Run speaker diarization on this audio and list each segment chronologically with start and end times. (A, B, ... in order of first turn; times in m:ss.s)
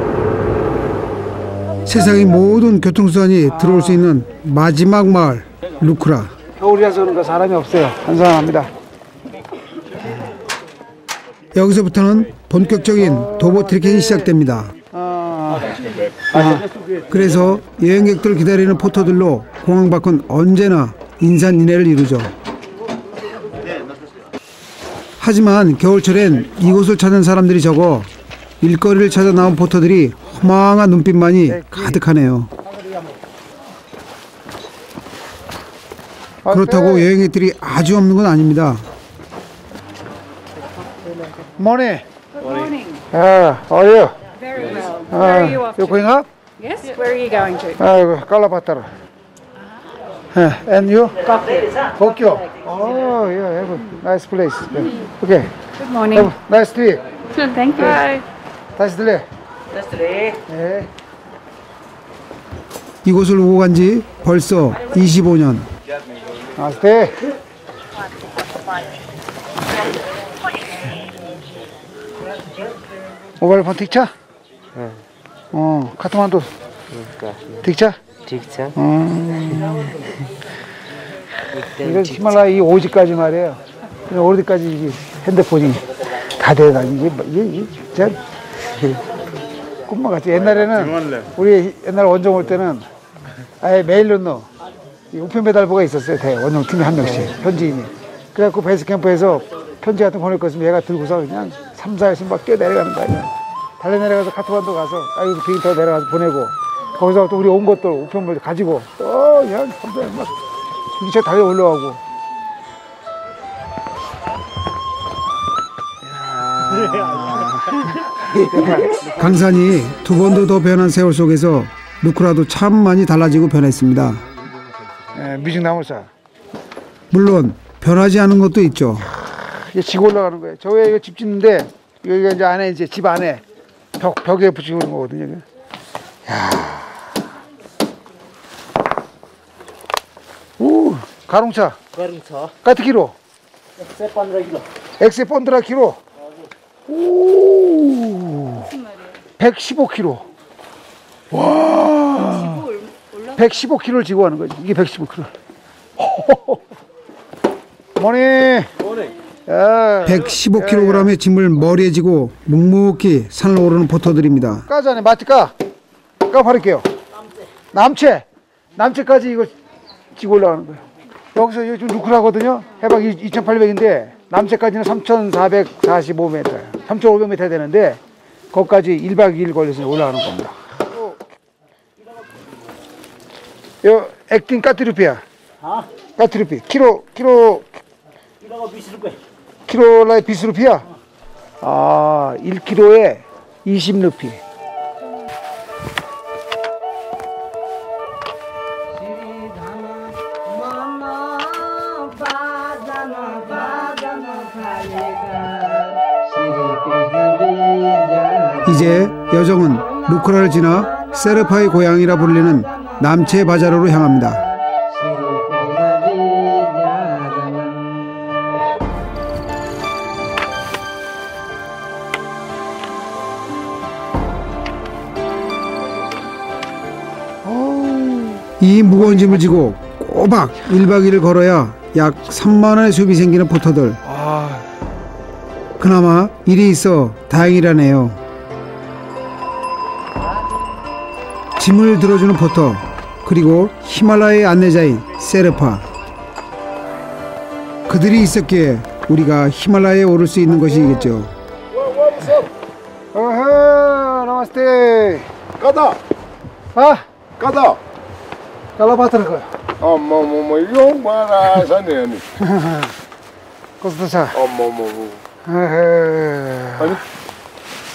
0:01.9-0:06.3 A
0:03.5-0:04.1 B
0:06.6-0:08.7 B
0:11.5-0:14.7 A
0:13.0-0:14.3 B
0:14.9-0:16.7 B
0:17.1-0:22.3 A
0:25.2-0:28.1 A
0:28.6-0:32.5 A
0:31.5-0:32.0 B
0:36.4-0:37.1 B
0:36.5-0:38.9 A
0:41.6-0:42.0 B
0:42.4-0:43.0 C
0:43.1-0:44.2 B
0:44.5-0:45.9 C
0:45.1-0:46.3 B
0:46.6-0:47.8 C
0:47.8-0:48.9 B
0:50.3-0:55.5 B
0:55.8-0:56.3 C
0:56.0-0:57.0 B
0:57.4-0:58.2 C
0:57.7-0:58.1 B
0:58.8-0:59.2 B
1:00.5-1:00.9 B
1:03.0-1:05.7 A
1:06.6-1:07.2 B
1:13.4-1:14.1 B
1:15.5-1:16.5 B
1:17.5-1:18.0 B
1:18.3-1:18.6 D
1:18.7-1:19.9 B
1:21.8-1:28.2 B
1:29.9-1:32.8 B
1:33.6-1:34.5 B
1:35.1-1:50.3 B
1:50.9-1:52.0 B
1:56.0-1:59.2 B
1:59.0-2:04.2 A
2:05.1-2:06.1 B
2:07.1-2:09.1 A
2:09.2-2:13.4 B
2:14.0-2:15.4 B
2:16.3-2:16.9 B
2:20.6-2:21.8 B
2:22.6-2:23.2 B
2:24.0-2:24.6 D
2:25.0-2:26.0 B
2:26.9-2:28.7 B
2:29.4-2:30.2 B
2:31.3-2:32.7 B
2:33.3-2:35.3 B
2:36.0-2:36.6 B
2:38.0-2:38.7 B
2:39.5-2:41.1 B
2:40.0-2:44.7 A
2:44.7-2:45.5 B
2:46.3-2:46.9 B
2:47.7-2:48.2 B
2:48.8-2:49.5 B
2:50.2-2:50.8 B
2:51.4-2:58.0 B
2:58.5-3:01.0 B
3:03.8-3:05.2 B
3:06.2-3:07.7 B
3:09.7-3:10.9 B
3:11.6-3:14.4 B
3:21.2-3:28.6 D
3:28.6-3:34.5 A
3:34.9-3:38.2 D
3:47.4-3:48.4 B
3:48.6-3:54.0 A
3:49.1-3:49.4 B
3:54.1-3:54.6 B
3:55.8-3:58.2 A
4:01.6-4:05.8 A
4:07.9-4:11.3 A
4:11.8-4:12.5 E
4:13.1-4:15.3 B
4:15.6-4:16.0 E
4:16.8-4:17.1 B
4:17.4-4:17.8 E
4:18.8-4:19.5 B
4:19.8-4:22.3 E
4:22.4-4:22.9 B
4:23.8-4:24.4 B
4:24.4-4:25.2 E
4:25.4-4:27.0 B